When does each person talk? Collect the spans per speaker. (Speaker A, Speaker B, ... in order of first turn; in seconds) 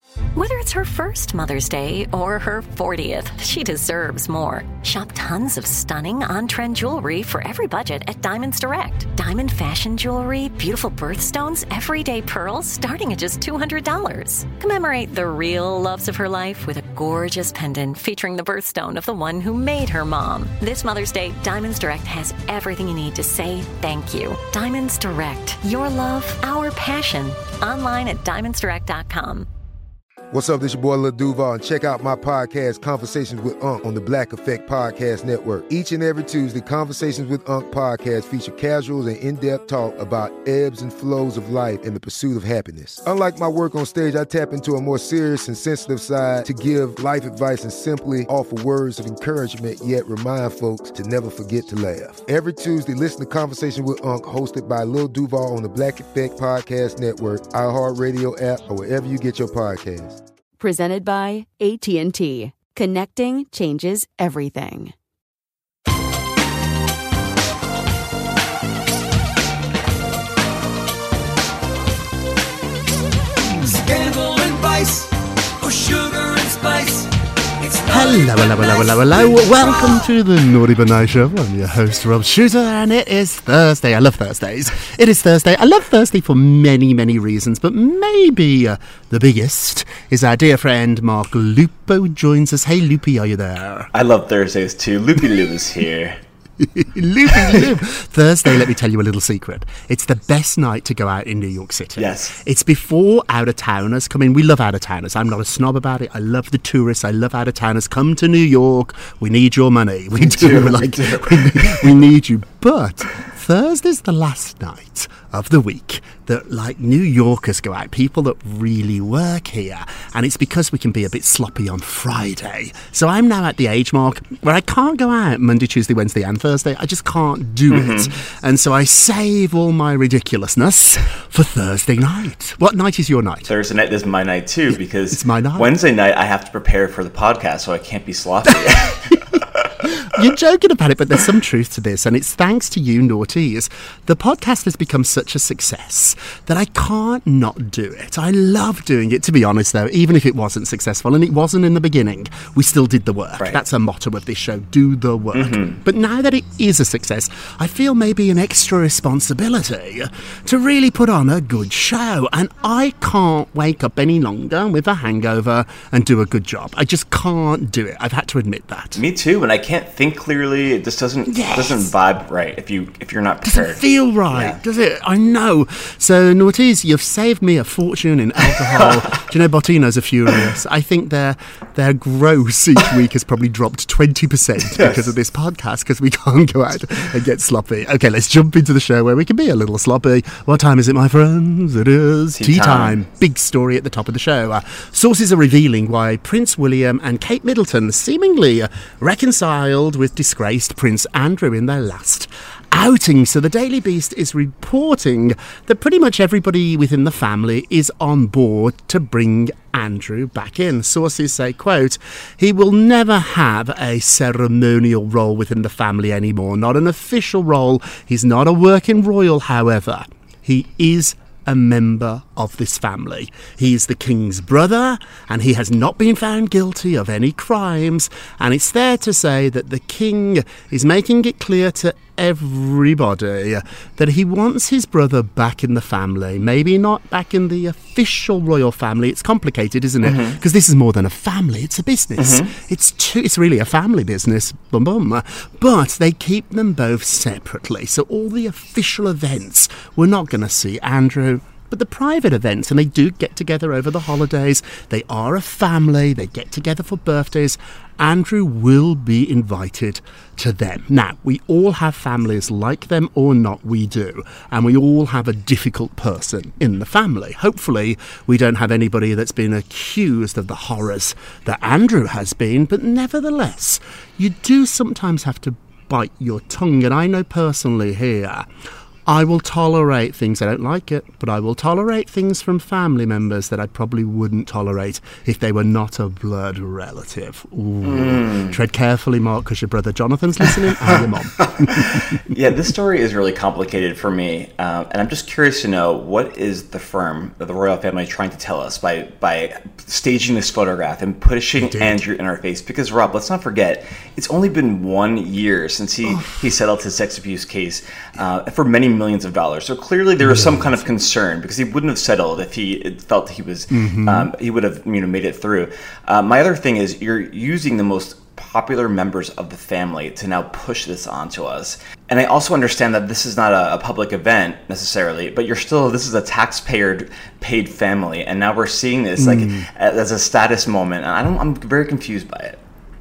Speaker A: 0.3-29.5
Speaker B: 30.3-60.2
Speaker C: 60.6-64.9
Speaker D: 73.5-80.0
Speaker E: 77.9-93.9, 96.6-133.5, 135.1-135.8, 139.1-169.0, 171.3-171.9, 173.4-278.5, 279.1-292.0, 301.6-302.0, 306.0-306.5, 310.2-310.8, 313.7-314.3, 329.2-329.7
Speaker F: 93.9-96.2, 102.0-102.3, 110.2-111.9, 127.7-128.1, 133.5-139.6, 155.3-155.8, 169.0-174.6, 184.7-185.1, 192.4-193.0, 240.0-240.4, 242.2-242.5, 287.9-288.5, 291.6-332.6